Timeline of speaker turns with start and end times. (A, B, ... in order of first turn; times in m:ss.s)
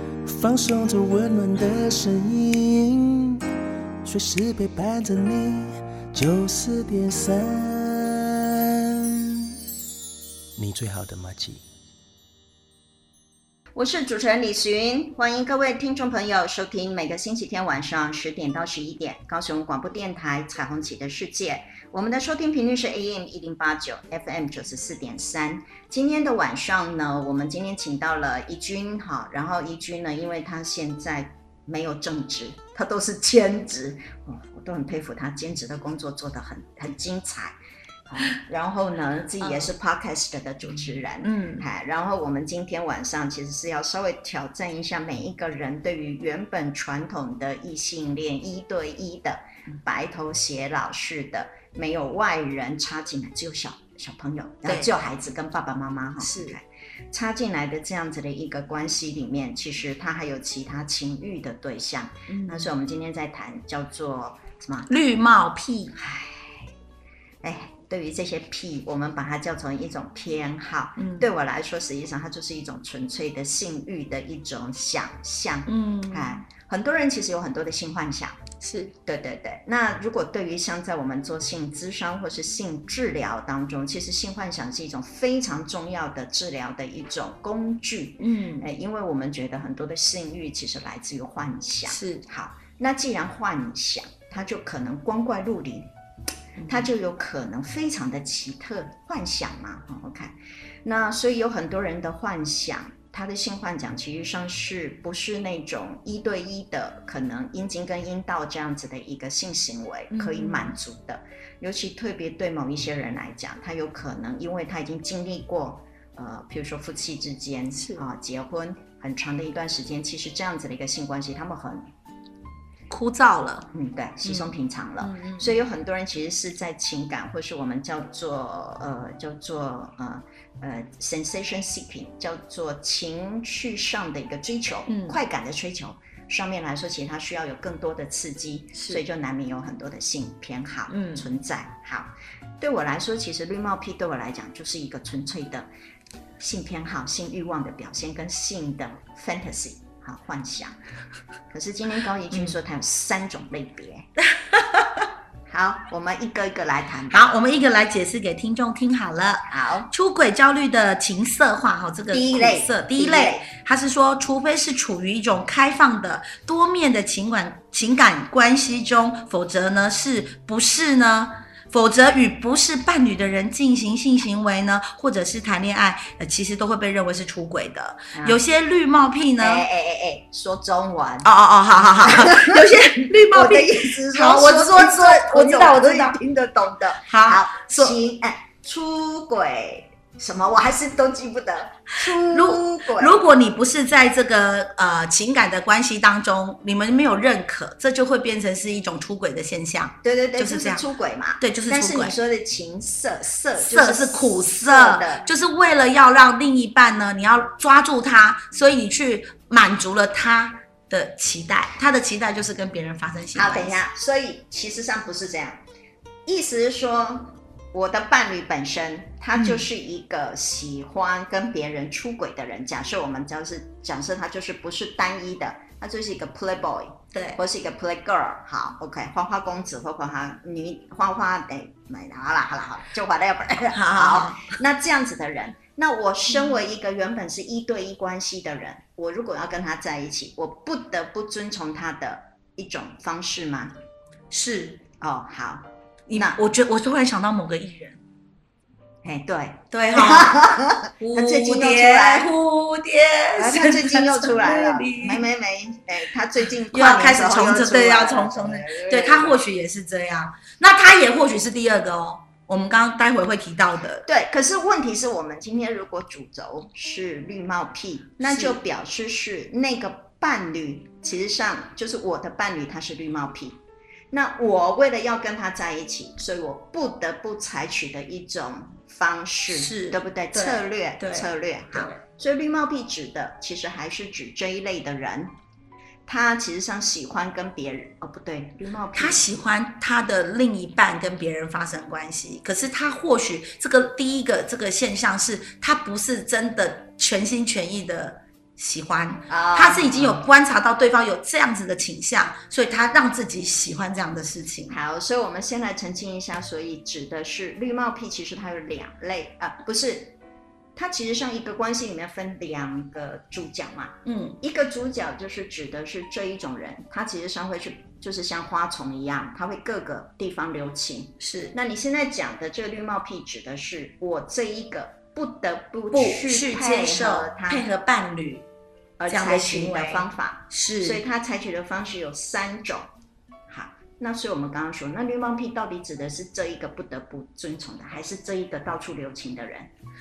0:00.3-0:03.4 A
0:04.0-0:09.5 A
0:10.6-0:11.6 A
0:13.8-0:37.6 B
0:38.1-1:04.9 B
0:39.4-0:39.7 C
0:41.2-0:41.6 C
0:54.6-0:54.9 C
0:56.2-0:56.6 C
1:02.3-1:02.7 C
1:04.9-1:06.0 C
1:06.0-1:06.7 B
1:07.4-1:18.4 B
1:11.0-1:11.3 C
1:15.7-1:16.4 C
1:18.6-1:18.9 C
1:19.1-1:35.9 B
1:28.2-1:28.7 C
1:31.9-1:32.2 C
1:36.6-1:36.9 C
1:36.7-2:01.9 B
1:50.1-1:50.8 C
1:57.8-1:58.0 C
2:02.9-2:03.7 C
2:03.7-2:25.7 B
2:04.2-2:05.6 C
2:14.9-2:15.2 C
2:18.8-2:19.0 C
2:20.9-2:21.3 C
2:26.4-2:30.8 B
2:31.5-2:34.1 B
2:34.3-2:35.1 C
2:35.5-2:37.3 B
2:37.1-2:59.7 C
2:39.5-2:39.9 B
2:42.1-2:43.5 B
2:58.1-2:58.4 B
2:59.4-3:13.2 B
3:01.2-3:06.2 C
3:07.1-3:08.0 C
3:12.1-3:20.8 C
3:20.0-3:25.3 B
3:21.4-3:22.2 C
3:23.6-3:33.8 C
3:33.4-3:35.6 B
3:36.3-4:03.8 B
3:39.4-3:39.6 C
3:47.1-3:47.4 C
3:53.7-3:54.5 C
4:04.3-4:04.8 C
4:05.0-4:06.4 B
4:06.1-4:08.0 C
4:09.0-4:12.3 B
4:09.7-4:10.4 C
4:11.0-4:15.2 C
4:13.4-4:19.4 B
4:16.7-4:24.1 C
4:24.0-4:45.4 B
4:28.2-4:28.6 C
4:39.5-4:42.0 C
4:46.1-4:49.2 B
4:48.9-5:04.8 C
4:59.3-5:00.2 B
5:04.7-5:10.2 B
5:10.8-5:27.7 B
5:14.0-5:14.4 C
5:21.2-5:21.6 C
5:25.9-5:28.5 C
5:29.0-5:32.9 B
5:29.1-5:31.0 C
5:33.5-5:39.7 B